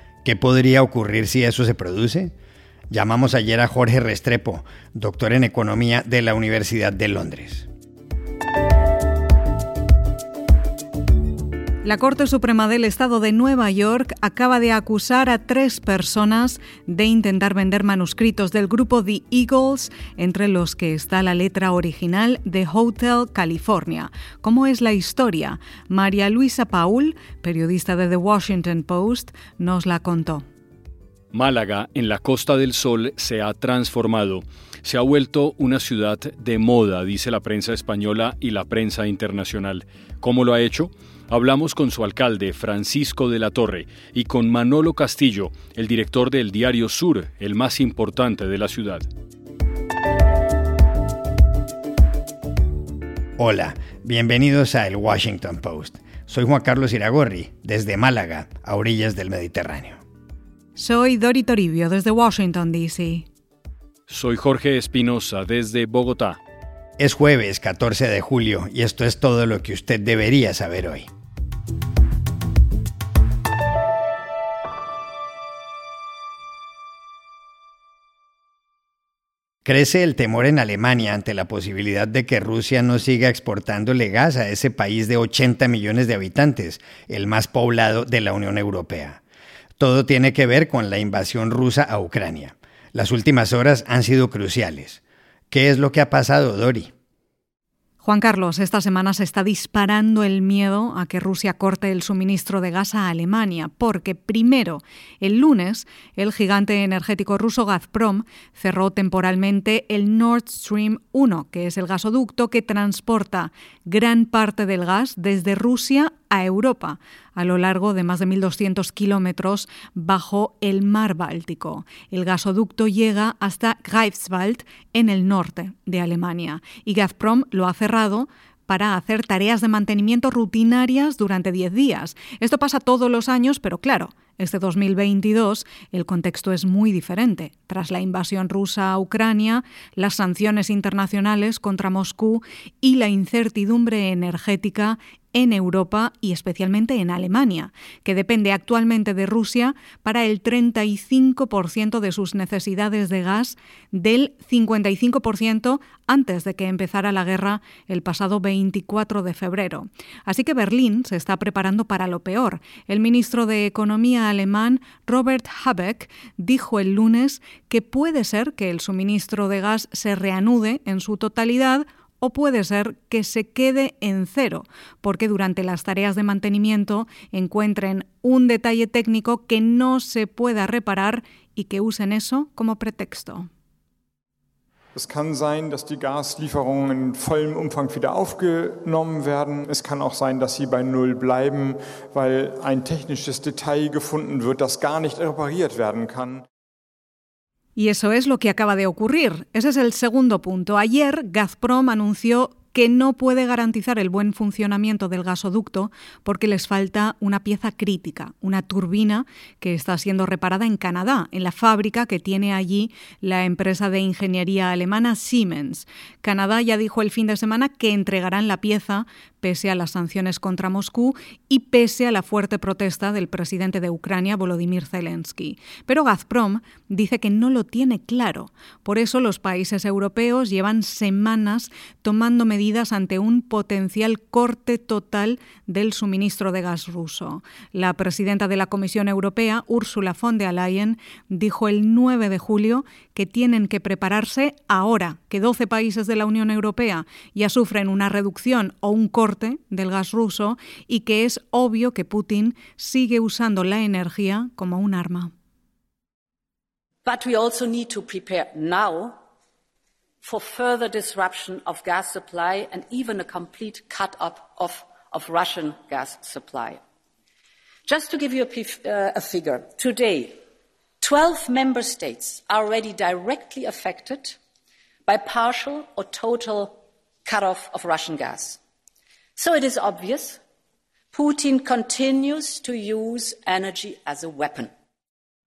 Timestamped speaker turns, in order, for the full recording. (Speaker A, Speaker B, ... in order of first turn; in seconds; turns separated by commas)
Speaker A: 0.2-2.3, Speaker A: 2.9-7.7, Speaker B: 11.8-30.4, Speaker C: 31.3-49.0, Speaker A: 53.4-60.0, Speaker B: 60.8-63.2, Speaker C: 64.1-66.4, Speaker A: 67.0-71.1, Speaker A: 79.6-89.2, Speaker A: 89.8-96.9, Speaker B: 98.0-183.5, Speaker D: 184.9-196.4, Speaker B: 197.8-255.3, Speaker E: 257.0-259.2, Speaker E: 260.2-266.8, Speaker E: 267.9-270.4, Speaker E: 271.0-274.4, Speaker E: 275.1-278.6, Speaker E: 279.4-280.4, Speaker E: 281.1-284.7